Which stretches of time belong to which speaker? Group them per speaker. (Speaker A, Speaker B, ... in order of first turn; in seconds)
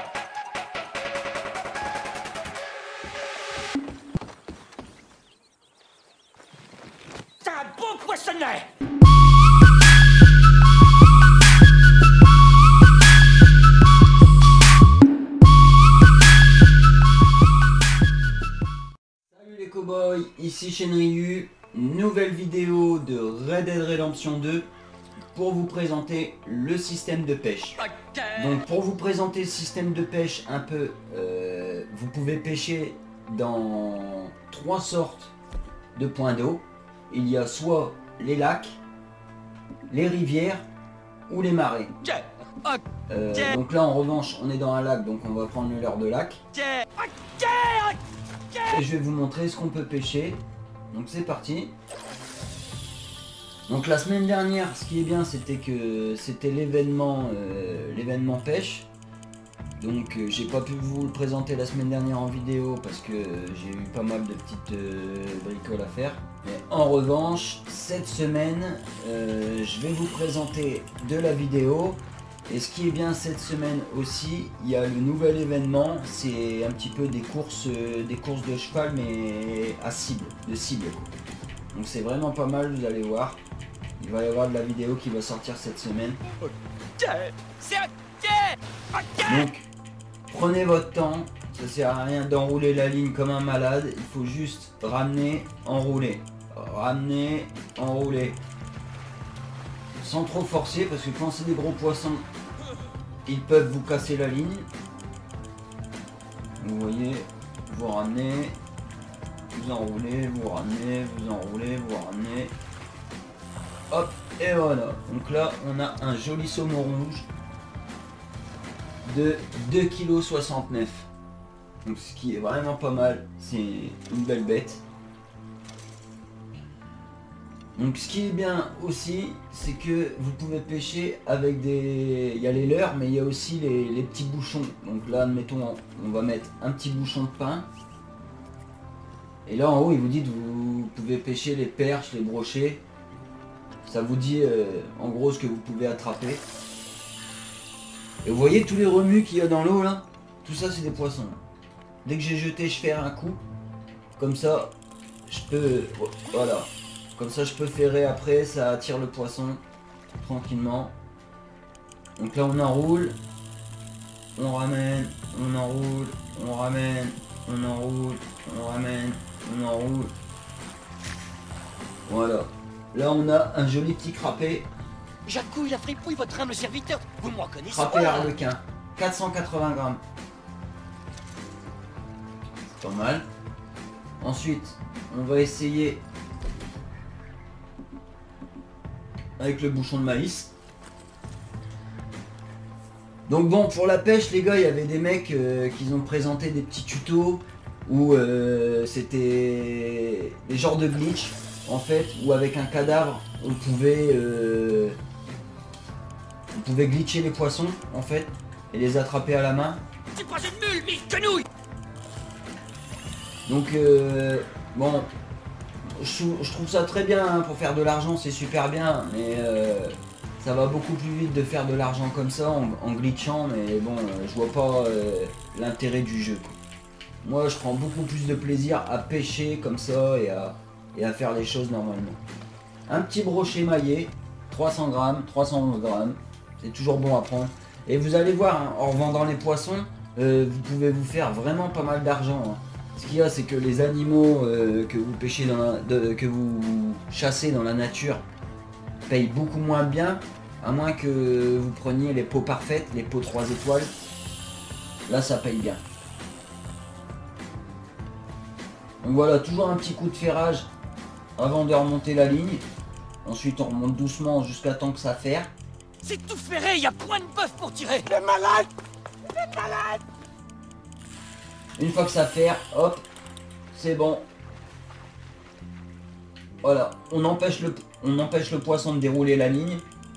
Speaker A: 7.4-8.7, 27.9-28.6, 42.0-42.8, 46.5-48.0, 48.5-48.8, 87.0-89.5, 175.2-178.3, 210.2-211.5, 266.0-268.7, 269.5-270.0
Speaker B: 19.3-24.7, 25.3-27.8, 28.3-35.3, 36.0-38.8, 39.9-40.6, 41.3-41.9, 43.1-46.4, 48.7-51.7, 53.7-58.9, 59.8-81.1, 81.7-83.4, 84.0-86.2, 89.2-89.7, 90.3-98.4, 100.0-102.2, 103.3-104.7, 106.6-108.6, 109.5-112.5, 113.9-117.3, 119.0-121.1, 121.8-124.8, 127.8-137.7, 139.5-142.8, 143.8-146.4, 148.2-151.4, 152.1-153.4, 154.2-154.7, 155.3-159.6, 160.1-160.9, 162.2-163.2, 164.4-170.1, 172.1-174.7, 177.7-180.0, 182.7-183.2, 184.2-186.0, 189.4-190.5, 193.3-205.0, 206.5-209.8, 213.5-215.1, 216.0-226.6, 227.2-232.2, 232.9-248.2, 249.1-253.9, 255.1-255.8, 259.0-260.7, 261.4-262.6, 263.2-265.5, 271.8-273.0, 273.7-274.2, 276.6-279.8